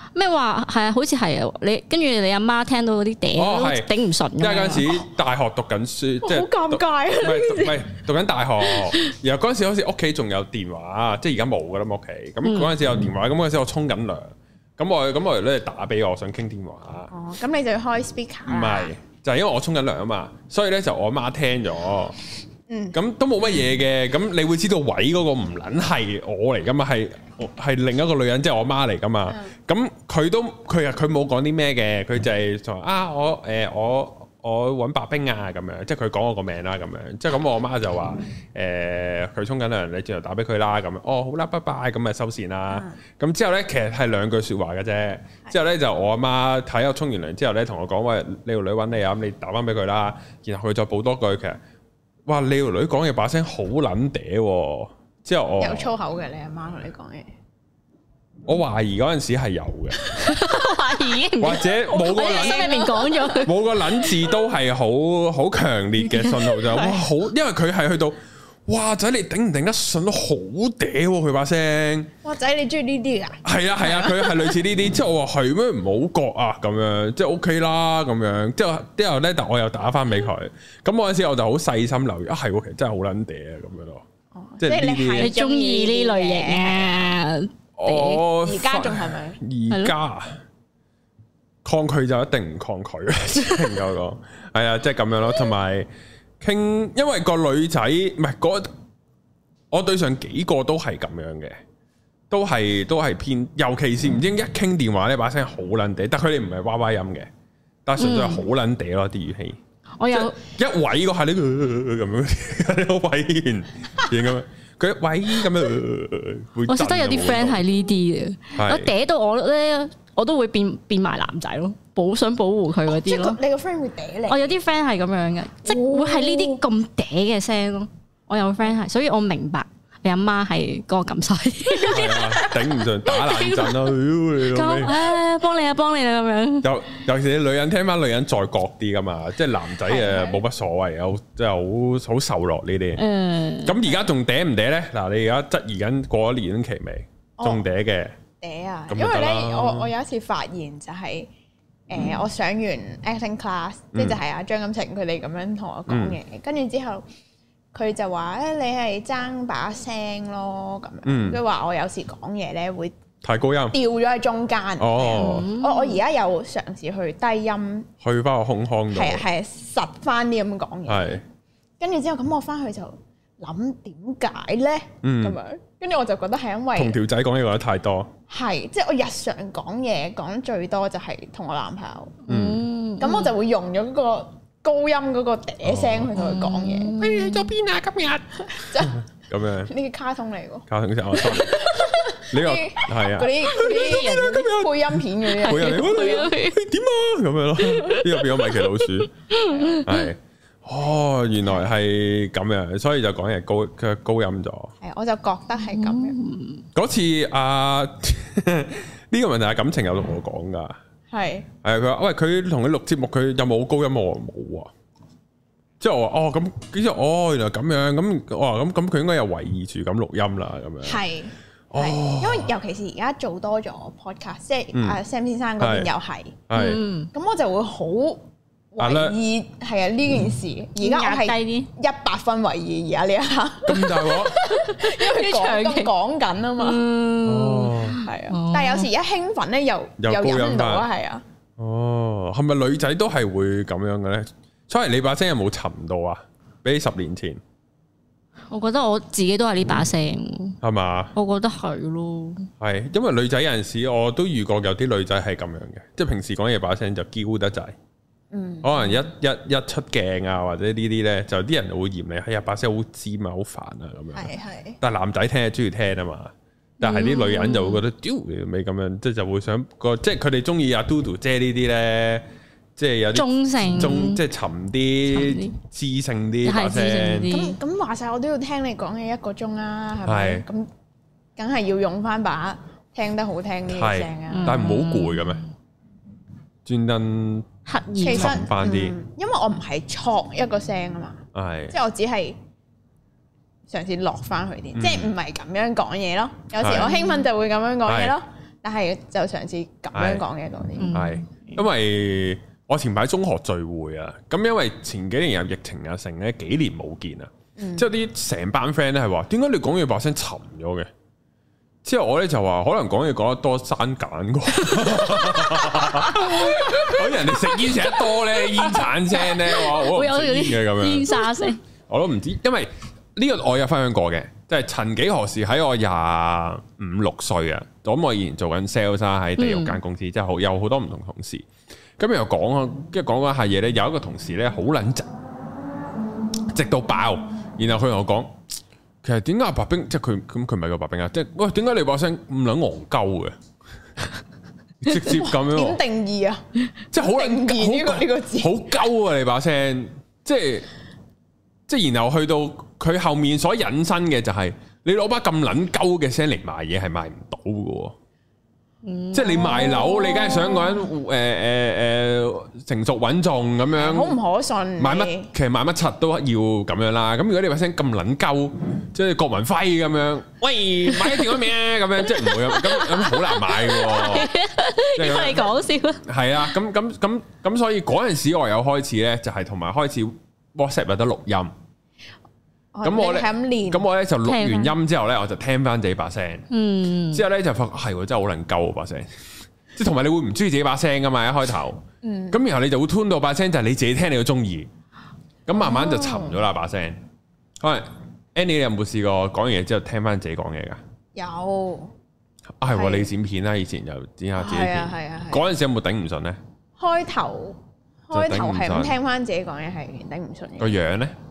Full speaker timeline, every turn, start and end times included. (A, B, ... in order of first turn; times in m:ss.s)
0:00.2-0:05.0 A
0:03.4-0:17.1 B
0:06.2-0:07.8 C
0:08.7-0:09.0 C
0:12.4-0:12.7 A
0:17.1-0:18.9 C
0:18.5-0:22.2 B
0:22.7-0:23.0 C
0:22.9-0:51.6 B
0:42.7-0:43.0 C
0:52.3-0:55.9 B
0:55.6-0:57.3 C
0:58.5-1:00.1 B
1:00.2-1:03.6 A
1:01.4-1:02.7 B
1:01.7-1:03.5 C
1:03.4-1:12.1 B
1:06.1-1:06.5 A
1:06.7-1:07.0 C
1:12.2-1:14.6 C
1:13.4-1:24.0 B
1:24.3-1:27.2 C
1:24.6-1:25.3 B
1:25.2-1:28.2 A
1:27.8-1:30.4 B
1:28.4-1:29.4 C
1:31.6-1:35.9 B
1:36.4-1:38.7 B
1:39.7-1:41.6 B
1:42.3-1:47.3 B
1:47.9-1:49.6 B
1:48.0-1:48.4 A
1:50.0-1:50.4 A
1:50.1-1:57.6 B
1:56.7-2:03.4 A
1:58.6-1:58.9 B
2:02.9-2:04.6 C
2:04.3-2:16.7 A
2:05.6-2:06.6 C
2:11.9-2:15.0 B
2:16.6-2:23.0 B
2:19.8-2:20.4 C
2:23.0-2:23.8 A
2:23.6-2:28.2 B
2:27.4-2:27.6 C
2:28.4-2:31.3 C
2:28.9-2:29.9 B
2:31.9-2:37.0 C
2:33.9-2:34.2 B
2:35.9-2:36.2 B
2:37.7-2:43.0 C
2:41.0-2:41.4 B
2:43.2-2:43.8 B
2:43.7-2:47.9 C
2:44.8-2:45.5 B
2:45.2-2:46.0 A
2:48.0-2:49.3 B
2:48.9-2:51.2 C
2:50.9-2:51.2 B
2:51.8-2:57.0 C
2:55.0-2:55.4 B
2:56.8-2:58.1 B
2:58.3-3:02.2 C
3:02.3-3:02.6 B
3:02.3-3:03.3 A
3:03.0-3:07.0 C
3:05.6-3:06.1 B
3:06.2-3:07.5 A
3:07.0-3:09.7 B
3:08.5-3:09.0 C
3:09.6-3:16.3 C
3:10.7-3:19.1 B
3:13.5-3:14.7 A
3:15.3-3:16.6 A
3:17.6-3:20.1 A
3:19.4-3:19.9 C
3:19.8-3:24.7 B
3:24.8-3:26.2 C
3:25.7-3:26.6 A
3:26.8-3:30.8 B
3:31.1-3:31.5 C
3:31.6-3:34.7 B
3:35.8-3:41.0 B
3:40.8-3:46.4 C
3:41.7-3:42.5 B
3:44.7-3:45.0 B
3:45.6-3:45.9 B
3:46.5-3:46.8 B
3:46.5-3:47.1 A
3:47.1-3:56.8 C
3:48.8-3:49.2 B
3:50.8-3:51.7 A
3:53.6-3:54.4 B
3:54.5-3:55.9 A
3:56.6-3:58.9 A
3:57.2-3:58.0 B
3:58.0-4:01.2 C
4:00.0-4:00.9 B
4:01.6-4:07.4 B
4:08.5-4:10.6 A
4:10.6-4:11.1 B
4:11.2-4:12.5 A
4:12.6-4:17.8 B
4:18.3-4:19.0 C
4:18.6-4:32.2 B
4:24.1-4:24.8 C
4:26.8-4:27.8 A
4:32.8-4:37.3 B
4:33.2-4:34.2 A
4:35.1-4:35.6 A
4:36.4-4:37.6 A
4:37.3-4:40.7 C
4:40.0-4:40.4 B
4:41.4-4:44.6 C
4:43.7-4:45.4 B
4:44.3-4:45.5 A
4:46.6-4:47.5 B
4:47.7-4:48.5 A
4:48.0-4:52.4 C
4:48.1-4:49.0 B
4:51.3-4:51.8 B
4:53.7-5:01.0 C
4:54.7-4:55.1 B
4:56.6-4:57.0 B
4:57.9-4:58.2 B
4:59.9-5:00.2 B
5:00.8-5:01.6 A
5:00.9-5:10.9 B
5:07.6-5:07.9 C
5:11.8-5:21.2 B
5:14.8-5:21.6 A
5:21.9-5:31.5 B
5:29.4-5:29.8 A
5:32.0-5:35.1 B
5:36.5-5:38.4 B
5:39.0-5:43.4 B
5:44.8-5:45.8 B
5:45.0-5:46.4 C
5:46.9-5:50.7 B
5:47.0-5:48.7 C
5:51.7-5:58.0 B
5:58.8-6:00.9 A
5:59.1-6:04.2 B
6:03.8-6:05.3 C
6:04.8-6:14.3 B
6:10.9-6:11.4 A
6:12.2-6:16.0 A
6:15.0-6:15.5 B
6:16.0-6:21.5 B
6:22.7-6:23.9 C
6:22.8-6:26.5 B
6:24.2-6:24.7 A
6:26.5-6:27.2 A
6:27.1-6:29.1 B
6:29.7-6:34.7 B
6:32.0-6:32.4 C
6:35.5-6:37.0 B
6:35.5-6:36.4 C
6:37.6-6:40.8 B
6:41.2-6:41.9 C
6:42.6-6:46.4 B
6:42.7-6:43.1 C
6:44.4-6:45.5 C
6:46.8-6:50.8 C
6:48.1-6:49.0 B
6:50.6-6:51.2 B